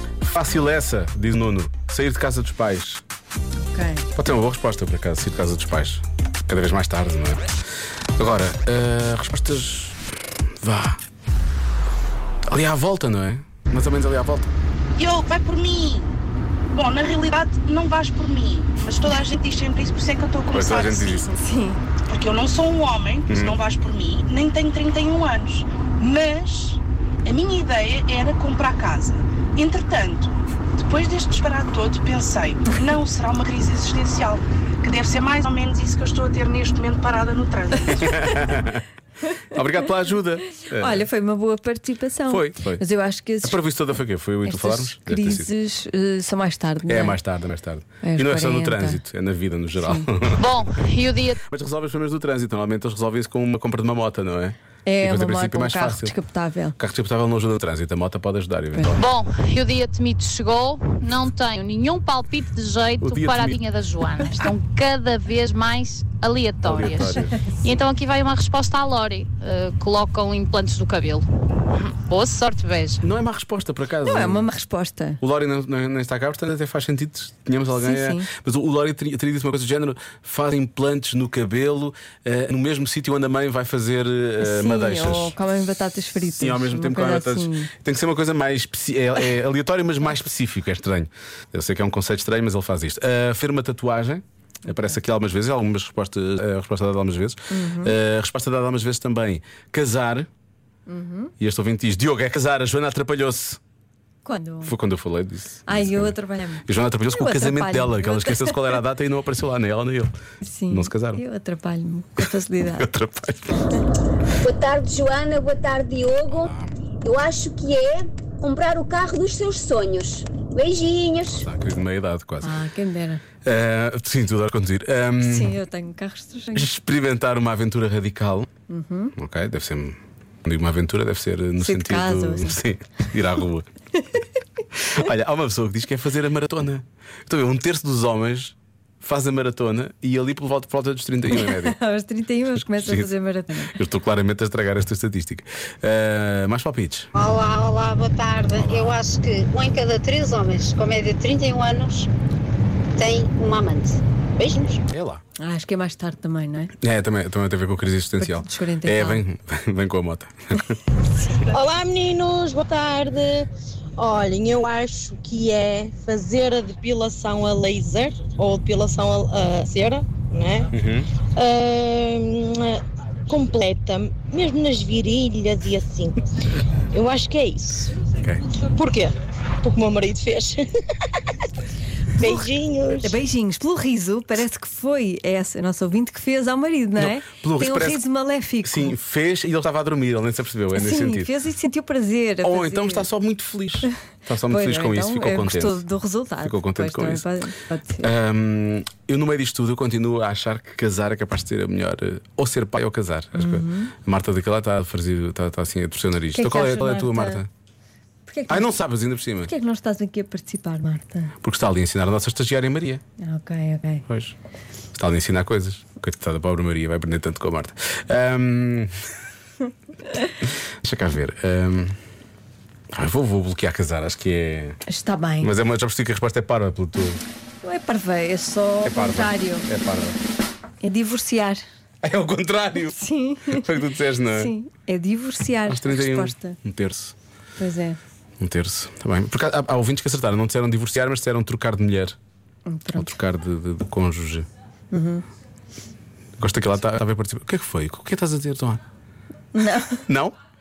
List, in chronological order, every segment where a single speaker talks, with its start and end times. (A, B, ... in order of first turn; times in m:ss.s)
0:00.2-0:03.0 A
0:03.6-0:04.1 B
0:04.2-0:07.5 A
0:08.2-0:10.0 A
0:10.6-0:11.0 A
0:12.5-0:14.5 A
0:15.0-0:16.2 C
0:16.7-0:21.4 C
0:20.5-0:21.3 A
0:21.3-0:21.8 B
0:22.1-0:38.6 C
0:23.3-0:23.6 A
0:37.9-0:38.8 A
0:39.4-0:41.1 A
0:40.8-0:43.6 B
0:42.3-0:42.8 A
0:43.4-0:45.5 A
0:44.4-0:47.2 B
0:46.8-0:50.4 A
0:48.0-0:49.0 B
0:49.8-0:50.1 B
0:50.3-0:51.4 D
0:51.4-0:56.2 A
0:54.9-0:56.8 B
0:56.8-0:59.0 A
0:58.7-0:59.0 B
0:59.0-1:13.0 D
1:03.0-1:03.6 A
1:06.6-1:07.4 A
1:13.0-1:14.5 A
1:14.0-1:15.2 B
1:15.2-1:25.4 A
1:17.7-1:18.3 B
1:24.4-1:27.7 B
1:26.2-1:40.3 A
1:37.5-1:38.0 B
1:40.9-1:41.3 B
1:41.4-1:43.6 A
1:44.2-1:44.8 B
1:44.6-1:50.1 A
1:45.7-1:48.8 B
1:50.4-1:52.9 B
1:50.7-1:51.2 A
1:52.2-1:53.7 A
1:54.4-2:01.5 E
1:56.3-1:56.7 A
2:01.3-2:02.6 A
2:02.4-2:03.2 B
2:03.4-2:05.6 A
2:05.2-2:06.7 B
2:06.5-2:08.5 A
2:08.7-2:09.1 B
2:09.2-2:13.7 A
2:11.6-2:12.6 B
2:14.8-2:21.8 A
2:21.3-2:23.8 B
2:22.6-2:27.1 A
2:27.2-2:32.1 F
2:28.6-2:29.0 A
2:33.0-2:34.8 F
2:34.9-2:35.2 A
2:35.4-2:36.7 B
2:36.8-2:40.8 A
2:38.2-2:39.2 B
2:41.4-2:56.2 G
2:50.7-2:51.1 A
2:56.9-2:57.9 G
2:58.2-2:58.4 A
2:58.7-3:00.7 G
3:02.2-3:03.2 G
3:02.2-3:02.5 B
3:03.0-3:09.0 B
3:07.0-3:08.0 A
3:08.6-3:11.3 A
3:10.7-3:13.1 B
3:12.4-3:15.8 A
3:14.4-3:18.1 B
3:16.4-3:17.3 A
3:18.0-3:27.5 A
3:23.4-3:23.9 B
3:26.3-3:27.4 B
3:28.3-3:28.7 B
3:28.5-3:29.5 A
3:29.4-3:31.3 B
3:31.4-3:33.0 A
3:33.2-3:34.0 B
3:34.1-3:34.4 A
3:35.0-3:38.9 A
3:40.4-3:42.0 A
3:42.9-3:44.8 A
3:44.9-3:45.5 B
3:45.4-3:47.2 A
3:47.6-3:49.7 B
3:48.8-3:50.2 A
3:50.8-3:51.6 B
3:52.0-3:54.5 A
3:52.9-3:56.6 B
3:55.7-3:57.2 A
3:57.6-3:58.0 B
3:58.4-4:02.2 A
4:02.7-4:03.2 B
4:02.9-4:04.5 A
4:04.9-4:05.3 B
4:06.4-4:08.8 A
4:09.6-4:10.0 B
4:10.1-4:10.4 A